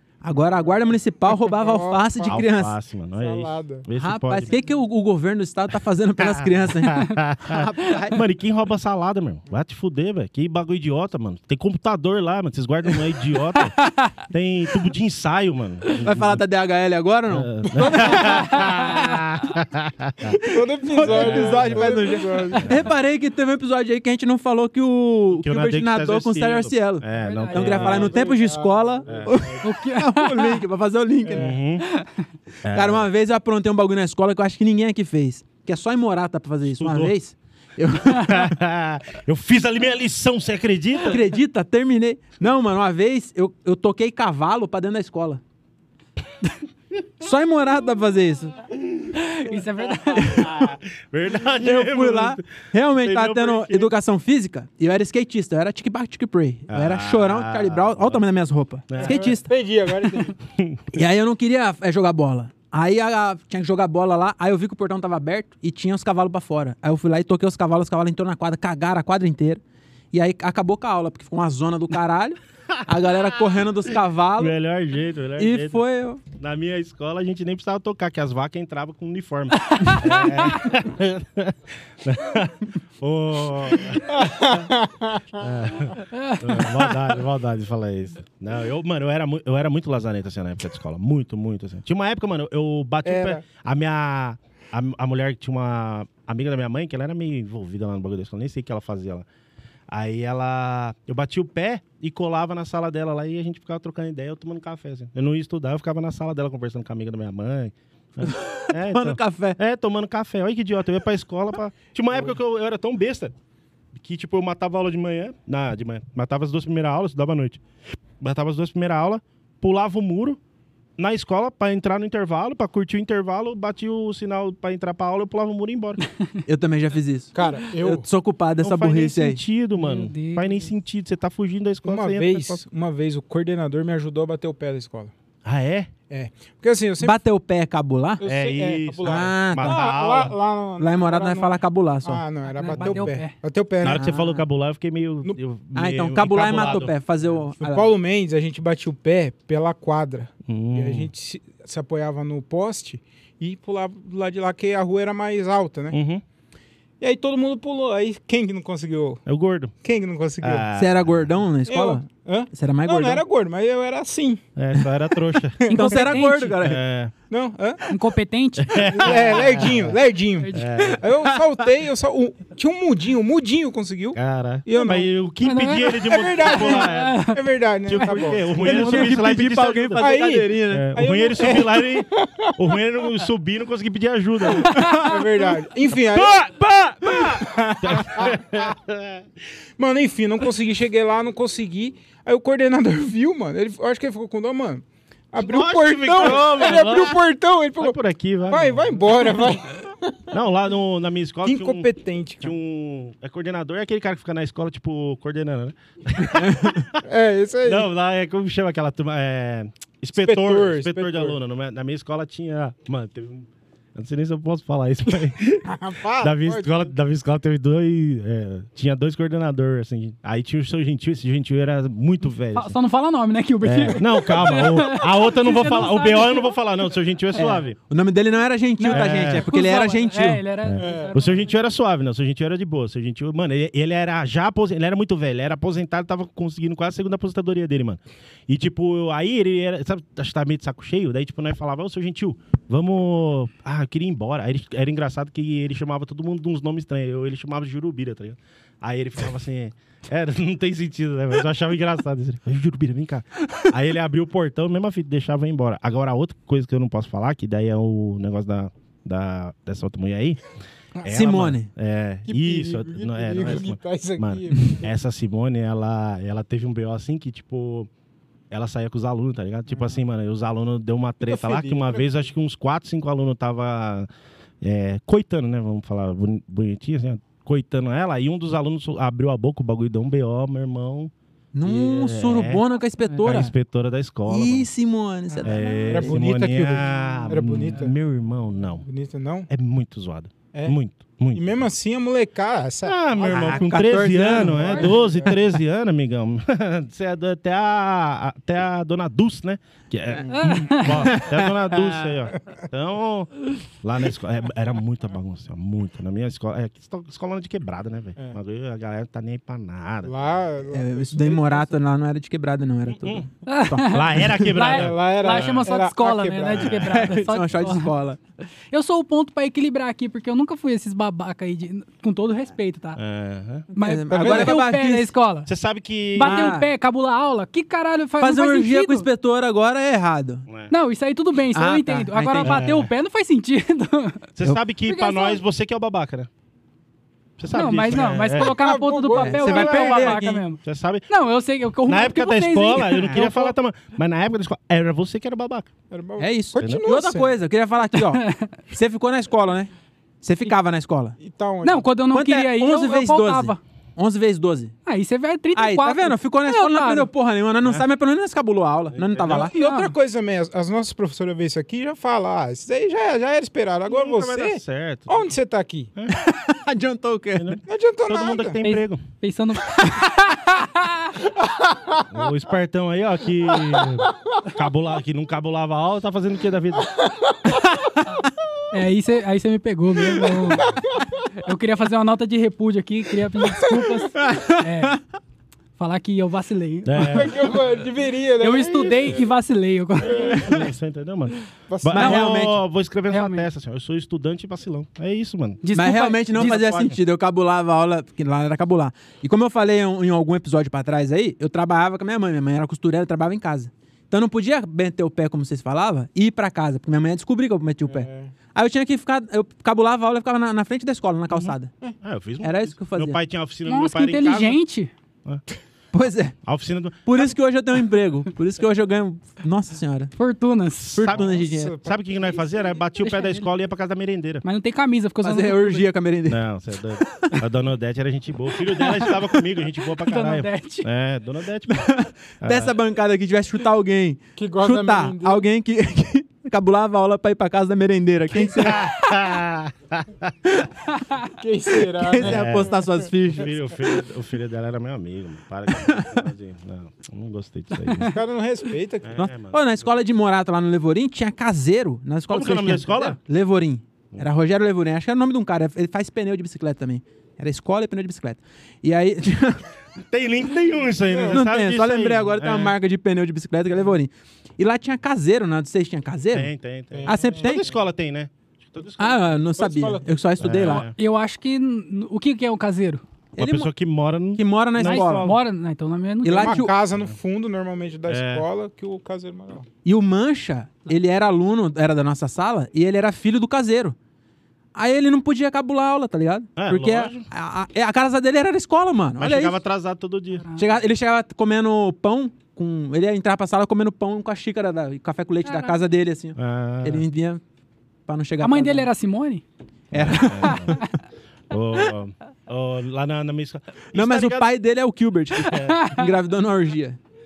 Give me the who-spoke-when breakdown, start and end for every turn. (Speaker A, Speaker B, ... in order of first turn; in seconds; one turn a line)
Speaker A: 0.2-2.7
Speaker B: 1.5-2.4
Speaker C: 2.3-4.5
Speaker B: 3.2-3.9
Speaker A: 4.0-8.2
Speaker C: 6.2-16.4
Speaker A: 16.0-18.4
Speaker C: 17.3-20.4
Speaker B: 17.6-18.7
Speaker D: 18.2-19.2
Speaker B: 20.3-22.8
Speaker A: 20.9-31.6
Speaker C: 21.0-22.0
Speaker C: 22.6-22.9
Speaker C: 25.4-28.3
Speaker D: 27.1-27.9
Speaker B: 27.7-29.6
Speaker C: 29.1-29.5
Speaker D: 29.6-30.6
Speaker B: 31.3-31.5
Speaker C: 31.3-31.9
Speaker D: 31.8-32.1
Speaker C: 32.6-33.1
Speaker A: 32.7-38.5
Speaker C: 36.6-37.1
Speaker C: 38.1-41.2
Speaker A: 41.0-45.4
Speaker A: 47.2-48.5
Speaker D: 49.1-50.6
Speaker C: 50.1-53.9
Speaker A: 51.6-59.5
Speaker C: 56.7-58.2
Speaker C: 58.9-59.4
Speaker B: 59.0-60.4
Speaker C: 60.5-60.9
Speaker A: 60.9-69.6
Speaker A: 70.1-74.5
Speaker C: 74.4-75.8
Speaker A: 75.4-76.2
Speaker C: 76.3-84.6
Speaker D: 79.7-80.4
Speaker B: 84.0-85.5
Speaker C: 85.4-99.2
Speaker D: 86.1-86.4
Speaker B: 93.0-93.4
Speaker C: 99.9-113.3
Speaker A: 108.2-109.6
Speaker C: 113.9-117.6
Speaker C: 118.2-120.4
Speaker C: 121.0-126.0
Speaker A: 126.5-129.4
Speaker B: 127.3-128.1
Speaker C: 128.6-132.6
Speaker D: 129.8-130.7
Speaker B: 131.8-135.1
Speaker C: 135.4-135.9
Speaker B: 136.1-137.2
Speaker A: 137.0-138.2
Speaker B: 138.2-144.1
Speaker C: 138.2-140.3
Speaker A: 139.0-139.8
Speaker A: 140.8-142.2
Speaker D: 142.5-143.3
Speaker A: 142.7-143.0
Speaker C: 143.8-146.9
Speaker A: 143.8-144.4
Speaker A: 145.7-147.9
Speaker B: 147.6-156.0
Speaker C: 150.5-151.1
Speaker C: 155.9-156.2
Speaker B: 157.0-159.2
Speaker C: 159.2-159.7
Speaker B: 159.8-160.7
Speaker C: 160.4-161.3
Speaker A: 160.8-163.2
Speaker B: 161.7-164.4
Speaker C: 164.6-165.7
Speaker B: 165.6-166.2
Speaker A: 165.7-166.8
Speaker D: 165.7-166.6
Speaker C: 166.6-167.1
Speaker B: 167.3-167.9
Speaker D: 167.9-169.2
Speaker C: 168.6-169.9
Speaker B: 168.8-175.1
Speaker D: 170.4-170.7
Speaker C: 170.5-171.1
Speaker C: 174.1-177.3
Speaker D: 175.4-177.4
Speaker B: 176.0-178.7
Speaker C: 177.8-180.1
Speaker D: 178.0-179.1
Speaker A: 178.6-181.6
Speaker B: 180.0-182.5
Speaker C: 180.7-184.9
Speaker D: 184.7-185.1
Speaker A: 184.7-185.2
Speaker B: 184.9-186.4
Speaker C: 186.0-189.2
Speaker B: 187.1-188.6
Speaker B: 189.8-198.0
Speaker C: 195.4-197.2
Speaker C: 197.8-199.0
Speaker B: 198.5-200.3
Speaker C: 200.3-207.0
Speaker B: 201.4-202.5
Speaker A: 206.4-206.7
Speaker B: 207.0-207.9
Speaker C: 207.6-222.7
Speaker B: 210.2-211.4
Speaker B: 215.6-216.9
Speaker D: 222.5-226.5
Speaker C: 223.6-227.8
Speaker A: 227.3-230.4
Speaker D: 228.8-231.5
Speaker C: 228.9-229.5
Speaker C: 230.6-260.4
Speaker B: 230.8-231.3
Speaker C: 261.0-267.9
Speaker A: 261.0-261.7
Speaker B: 262.3-264.9
Speaker C: 268.5-274.1
Speaker B: 269.7-270.0
Speaker B: 271.2-272.1
Speaker C: 274.6-281.1
Speaker A: 281.5-283.5
Speaker C: 281.6-282.6
Speaker C: 283.2-284.7
Speaker A: 284.3-286.2
Speaker B: 285.4-287.9
Speaker C: 285.4-288.9
Speaker B: 288.8-289.5
Speaker C: 289.5-291.6
Speaker B: 291.3-293.7
Speaker C: 292.8-310.4
Speaker A: 293.3-294.9
Speaker B: 294.4-295.4
Speaker B: 300.2-300.6
Speaker D: 300.4-301.1
Speaker A: 300.9-301.9
Speaker B: 310.0-311.8
Speaker A: 310.7-314.4
Speaker C: 313.0-313.3
Speaker D: 313.5-317.9
Speaker C: 313.8-315.7
Speaker B: 314.6-316.9
Speaker C: 316.5-317.0
Speaker A: 316.8-318.2
Speaker D: 318.7-323.0
Speaker C: 322.9-323.7
Speaker D: 323.7-325.5
Speaker A: 323.8-325.1
Speaker B: 324.1-324.6
Speaker C: 325.4-326.5
Speaker D: 326.1-329.1
Speaker A: 326.2-326.7
Speaker A: 328.2-330.4
Speaker C: 330.5-330.7
Speaker D: 330.7-334.3
Speaker A: 331.5-332.7
Speaker C: 332.4-332.9
Speaker C: 334.4-336.3
Speaker D: 334.8-335.4
Speaker C: 337.4-338.6
Speaker D: 337.5-343.5
Speaker B: 338.4-339.8
Speaker A: 339.1-340.4
Speaker C: 339.4-341.1
Speaker C: 341.9-345.7
Speaker B: 345.9-347.3
Speaker A: 346.2-349.7
Speaker C: 346.6-346.8
Speaker D: 347.9-348.5
Speaker A: 350.2-351.2
Speaker B: 351.2-351.9
Speaker D: 351.6-353.6
Speaker A: 352.1-354.7
Speaker D: 354.9-357.1
Speaker A: 355.5-359.5
Speaker C: 358.9-359.4
Speaker B: 359.2-365.9
Speaker D: 359.4-359.9
Speaker C: 363.9-365.2
Speaker A: 366.1-367.6
Speaker C: 367.4-369.0
Speaker B: 367.6-368.6
Speaker D: 368.6-371.1
Speaker B: 371.2-372.2
Speaker C: 372.1-376.9
Speaker B: 373.6-374.4
Speaker B: 376.9-377.6
Speaker D: 378.7-380.8
Speaker B: 380.0-381.2
Speaker D: 381.3-385.0
Speaker B: 383.4-384.0
Speaker A: 384.1-385.0
Speaker D: 385.8-387.3
Speaker C: 386.8-387.6
Speaker B: 387.0-389.3
Speaker D: 388.4-390.7
Speaker B: 390.0-390.6
Speaker C: 390.0-395.6
Speaker B: 391.7-392.2
Speaker A: 391.9-392.6
Speaker D: 393.1-393.5
Speaker D: 395.6-396.6
Speaker A: 395.7-411.7
Speaker C: 396.3-397.0
Speaker B: 407.9-408.3
Speaker C: 411.3-414.6
Speaker A: 412.4-413.2
Speaker D: 413.7-414.9
Speaker A: 415.9-416.4
Speaker C: 416.4-417.3
Speaker A: 417.1-420.1
Speaker D: 420.1-421.1
Speaker C: 420.9-421.3
Speaker A: 420.9-421.8
Speaker B: 421.1-422.8
Speaker C: 421.8-424.4
Speaker D: 423.0-423.4
Speaker D: 424.4-425.9
Speaker A: 425.2-426.4
Speaker C: 426.3-431.9
Speaker A: 427.0-427.4
Speaker D: 428.8-429.1
Speaker D: 430.0-430.9
Speaker A: 431.7-438.9
Speaker C: 432.4-432.7
Speaker B: 434.4-435.5
Speaker C: 438.3-440.3
Speaker B: 441.4-443.1
Speaker A: 441.9-443.6
Speaker C: 442.2-448.1
Speaker A: 445.8-446.2
Speaker D: 447.9-448.1
Speaker B: 448.0-449.2
Speaker C: 449.0-449.9
Speaker A: 449.2-459.6
Speaker C: 452.3-453.2
Speaker C: 460.0-462.7
Speaker B: 461.0-461.4
Speaker A: 461.3-466.5
Speaker C: 466.3-469.4
Speaker B: 466.9-467.6
Speaker A: 467.0-467.7
Speaker A: 469.0-470.9
Speaker B: 469.6-470.2
Speaker C: 470.4-470.9
Speaker D: 470.6-473.0
Speaker A: 473.4-473.7
Speaker C: 473.4-475.4
Speaker A: 474.4-475.3
Speaker D: 474.8-476.6
Speaker A: 476.2-476.7
Speaker B: 476.3-479.7
Speaker C: 478.1-478.4
Speaker A: 479.8-483.9
Speaker A: 484.7-489.6
Speaker C: 486.6-487.3
Speaker C: 489.2-490.4
Speaker D: 490.4-490.7
Speaker A: 490.6-497.4
Speaker D: 495.4-495.8
Speaker C: 496.4-497.1
Speaker A: 498.1-498.9
Speaker D: 498.4-499.4
Speaker C: 499.9-500.8
Speaker A: 499.9-500.8
Speaker D: 500.4-500.9
Speaker C: 501.5-504.5
Speaker A: 503.9-507.0
Speaker C: 505.4-505.8
Speaker D: 505.4-506.1